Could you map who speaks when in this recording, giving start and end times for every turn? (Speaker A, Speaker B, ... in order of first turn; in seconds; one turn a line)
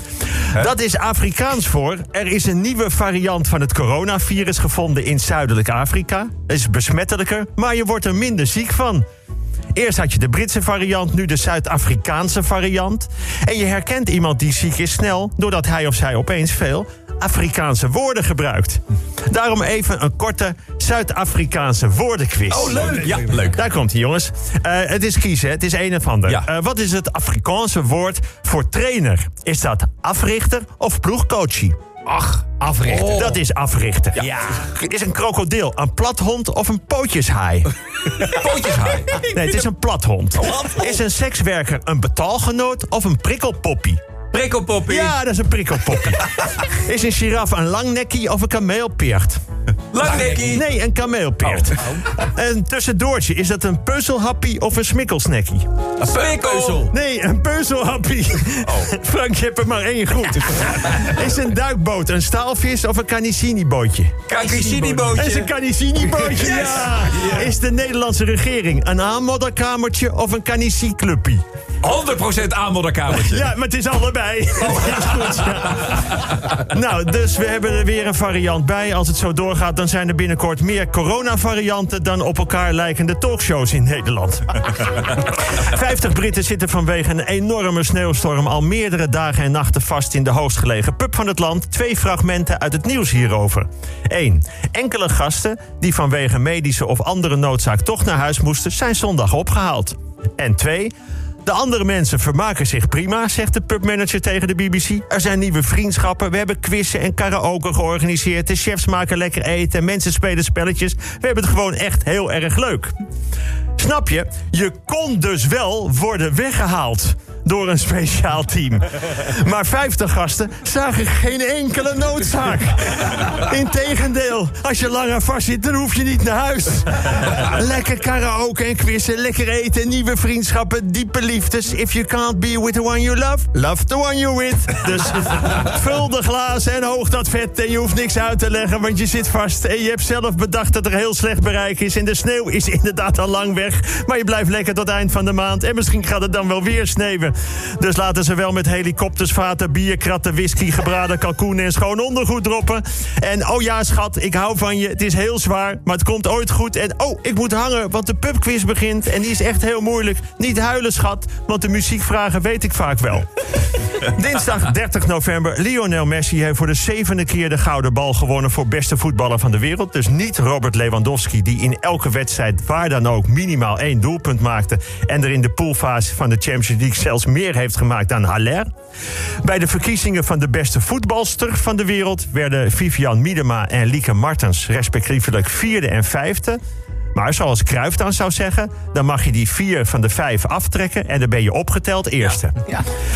Speaker A: 0.5-9.0
Speaker A: 9.7-31.8
Speaker B: 22.5-23.6
Speaker B: 32.1-33.4
Speaker A: 32.6-37.7
Speaker B: 34.2-34.6
Speaker B: 38.1-39.3
Speaker A: 39.2-44.0
Speaker B: 40.5-40.8
Speaker B: 44.3-45.1
Speaker A: 44.9-49.4
Speaker B: 49.9-50.6
Speaker A: 50.2-55.6
Speaker B: 51.6-52.0
Speaker B: 56.0-56.9
Speaker A: 56.7-64.2
Speaker B: 64.3-65.5
Speaker A: 65.1-71.4
Speaker B: 66.2-67.5
Speaker B: 71.8-73.5
Speaker A: 73.1-100.9
Speaker A: 101.4-112.9
Speaker A: 113.8-178.7
Speaker A: 179.4-186.6
Speaker A: 187.1-192.8